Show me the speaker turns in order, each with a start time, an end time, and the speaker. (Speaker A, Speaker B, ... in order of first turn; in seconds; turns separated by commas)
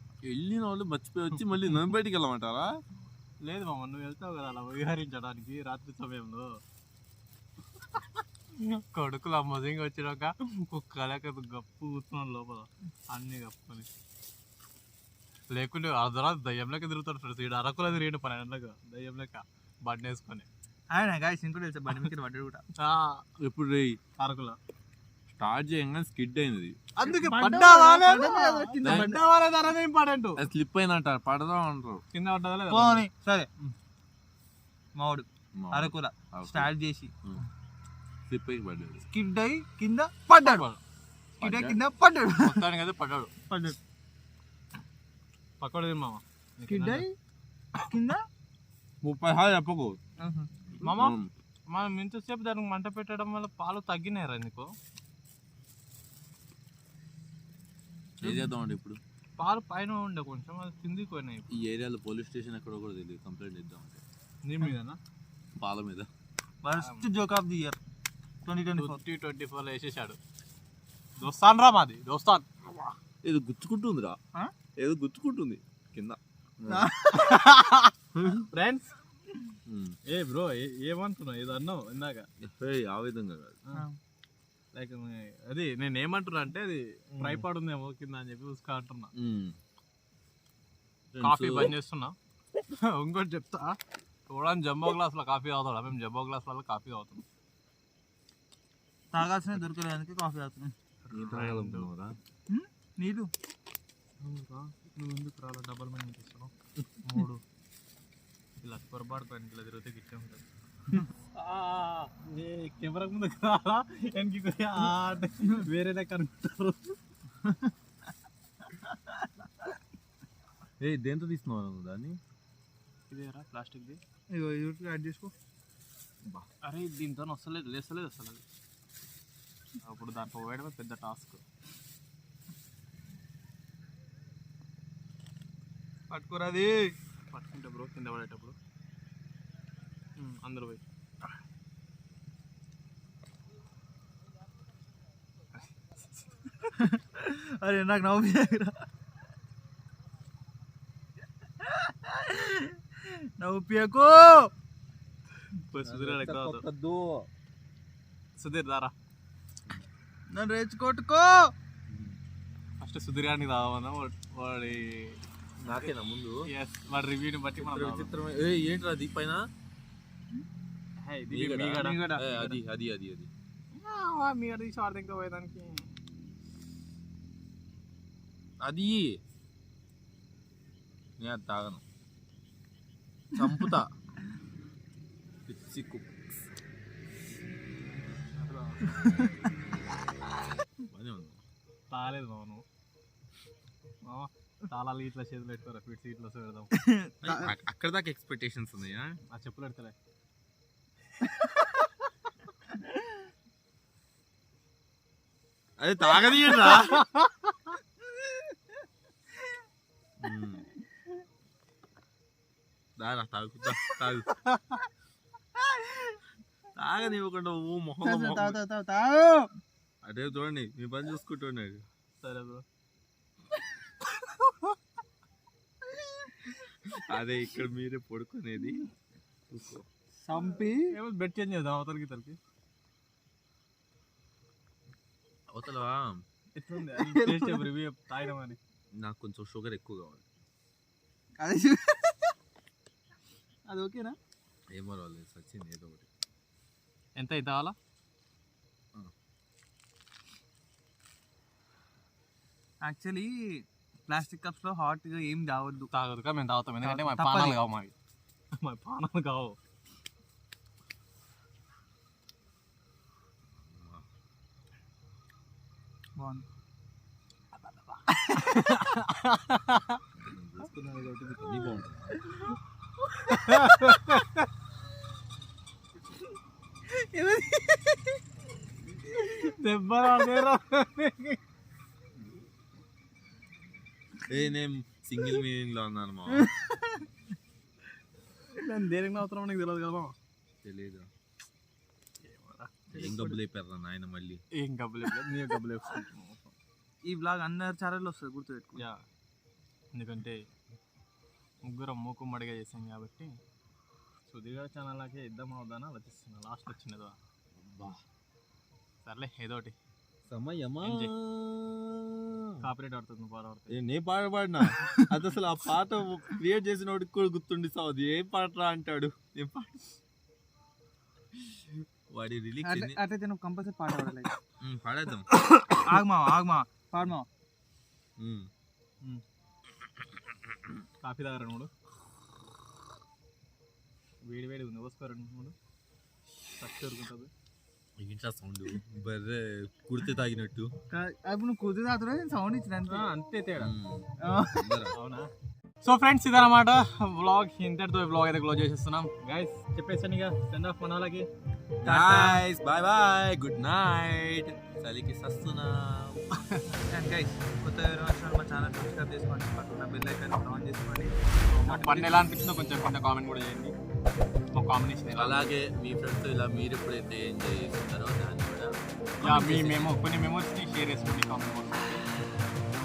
Speaker A: 0.2-2.7, Speaker B: 3.4-6.6, Speaker B: 8.6-13.9, Speaker B: 15.5-20.5, Speaker C: 20.9-22.6, Speaker B: 22.8-23.2, Speaker A: 23.4-24.0, Speaker B: 24.2-24.6, Speaker A: 25.3-26.8, Speaker B: 27.0-30.4, Speaker C: 27.0-29.2, Speaker A: 28.8-29.1, Speaker A: 30.4-32.0, Speaker B: 32.1-33.0, Speaker C: 32.7-33.5, Speaker C: 35.0-37.1, Speaker A: 35.6-36.7, Speaker A: 38.3-39.0, Speaker C: 39.0-40.6, Speaker B: 40.4-40.8, Speaker A: 41.4-41.8, Speaker C: 41.4-42.6, Speaker B: 42.4-43.3, Speaker C: 43.5-43.8, Speaker B: 45.6-47.0, Speaker C: 46.7-47.1, Speaker C: 47.8-48.2, Speaker A: 49.0-50.0, Speaker C: 50.2-50.5, Speaker A: 50.7-51.3, Speaker B: 50.8-51.2, Speaker B: 51.7-54.7, Speaker A: 58.2-59.0, Speaker C: 58.2-58.5, Speaker B: 59.4-61.6, Speaker A: 61.5-64.0, Speaker B: 64.4-65.0, Speaker A: 65.6-66.1, Speaker C: 66.6-67.8, Speaker B: 66.8-67.1, Speaker C: 68.5-69.0, Speaker B: 68.8-70.2, Speaker B: 71.2-72.5, Speaker A: 73.2-74.2, Speaker A: 74.8-76.9, Speaker C: 76.7-77.4, Speaker B: 77.1-77.9, Speaker A: 78.1-78.5, Speaker B: 78.5-78.9, Speaker A: 79.7-80.0, Speaker B: 80.1-82.3, Speaker A: 82.4-83.6, Speaker C: 83.7-84.0, Speaker B: 84.7-89.1, Speaker A: 87.2-87.4, Speaker A: 89.1-89.6, Speaker A: 91.1-91.7, Speaker B: 91.2-93.8, Speaker B: 94.3-97.2, Speaker C: 99.1-100.7, Speaker B: 101.0-101.9, Speaker A: 101.1-102.2, Speaker C: 102.5-103.3, Speaker B: 104.2-107.4, Speaker B: 108.6-110.4, Speaker B: 111.4-117.0, Speaker C: 117.4-117.7, Speaker C: 118.9-119.2, Speaker A: 120.8-122.2, Speaker B: 123.1-124.0, Speaker C: 124.3-125.3, Speaker B: 126.6-128.4, Speaker B: 129.8-131.4, Speaker C: 136.1-136.9, Speaker B: 137.3-138.6, Speaker B: 140.2-140.8, Speaker C: 146.8-148.7, Speaker C: 151.6-154.5, Speaker B: 155.6-156.6, Speaker A: 155.8-157.3, Speaker B: 158.4-158.9, Speaker C: 160.3-161.5, Speaker A: 161.9-162.2, Speaker B: 162.8-165.2, Speaker A: 165.6-166.4, Speaker B: 166.5-168.1, Speaker A: 167.6-169.4, Speaker B: 171.0-172.6, Speaker A: 171.3-173.3, Speaker C: 171.8-172.3, Speaker B: 173.7-175.9, Speaker A: 178.6-179.2, Speaker A: 181.2-181.8, Speaker A: 183.3-183.9, Speaker A: 185.5-186.4, Speaker B: 188.3-189.4, Speaker C: 189.0-189.2, Speaker A: 190.8-191.4, Speaker B: 191.9-192.6, Speaker B: 194.0-196.7, Speaker C: 196.7-197.5, Speaker A: 197.2-199.2, Speaker B: 199.3-199.9, Speaker A: 205.8-207.1, Speaker B: 206.8-207.7, Speaker A: 210.2-210.7, Speaker A: 213.0-214.3, Speaker B: 214.4-214.8, Speaker C: 215.7-216.1, Speaker A: 216.8-218.6, Speaker C: 218.0-219.5, Speaker A: 220.0-221.8, Speaker B: 222.2-222.6, Speaker C: 225.9-226.9, Speaker A: 226.9-228.8, Speaker A: 229.5-229.8, Speaker C: 230.2-230.9, Speaker B: 230.3-232.4, Speaker A: 235.5-236.2, Speaker B: 236.5-238.6, Speaker C: 236.9-237.7, Speaker A: 238.9-240.2, Speaker C: 241.4-242.3, Speaker C: 243.7-244.2, Speaker A: 244.7-246.1, Speaker B: 247.2-247.8, Speaker C: 252.8-253.3, Speaker C: 254.1-255.9, Speaker B: 255.9-257.9, Speaker C: 256.8-257.6, Speaker B: 258.5-259.6, Speaker A: 263.6-264.0, Speaker C: 266.2-266.4, Speaker C: 268.1-268.4, Speaker B: 268.3-270.0, Speaker A: 270.2-272.2, Speaker B: 273.3-274.4, Speaker C: 273.3-274.2, Speaker C: 276.9-278.2, Speaker B: 279.3-281.4, Speaker A: 284.3-286.5, Speaker C: 286.3-287.0, Speaker B: 288.5-290.1, Speaker A: 290.6-291.1, Speaker B: 292.2-293.3, Speaker A: 292.9-294.4, Speaker B: 294.5-296.5, Speaker C: 297.0-298.8, Speaker B: 298.8-299.0, Speaker B: 299.9-300.4, Speaker B: 301.6-303.3, Speaker B: 304.3-307.2, Speaker A: 307.6-308.0, Speaker B: 309.0-309.7, Speaker A: 310.3-312.6, Speaker B: 310.8-311.1, Speaker B: 312.6-313.7, Speaker A: 313.7-319.9, Speaker A: 322.1-323.0, Speaker C: 322.6-324.3, Speaker A: 324.6-325.3, Speaker C: 325.7-327.3, Speaker A: 328.2-328.5, Speaker B: 331.0-331.7, Speaker B: 334.2-335.5, Speaker B: 336.6-337.3, Speaker A: 338.0-340.7, Speaker C: 340.9-343.1, Speaker B: 342.9-343.7, Speaker A: 343.6-344.9, Speaker C: 344.2-344.8, Speaker B: 344.9-345.3, Speaker B: 345.8-351.3, Speaker A: 351.8-356.2, Speaker C: 351.8-352.4, Speaker C: 356.9-362.2, Speaker B: 361.5-363.7, Speaker B: 364.5-365.4, Speaker A: 365.1-369.9, Speaker B: 369.2-372.1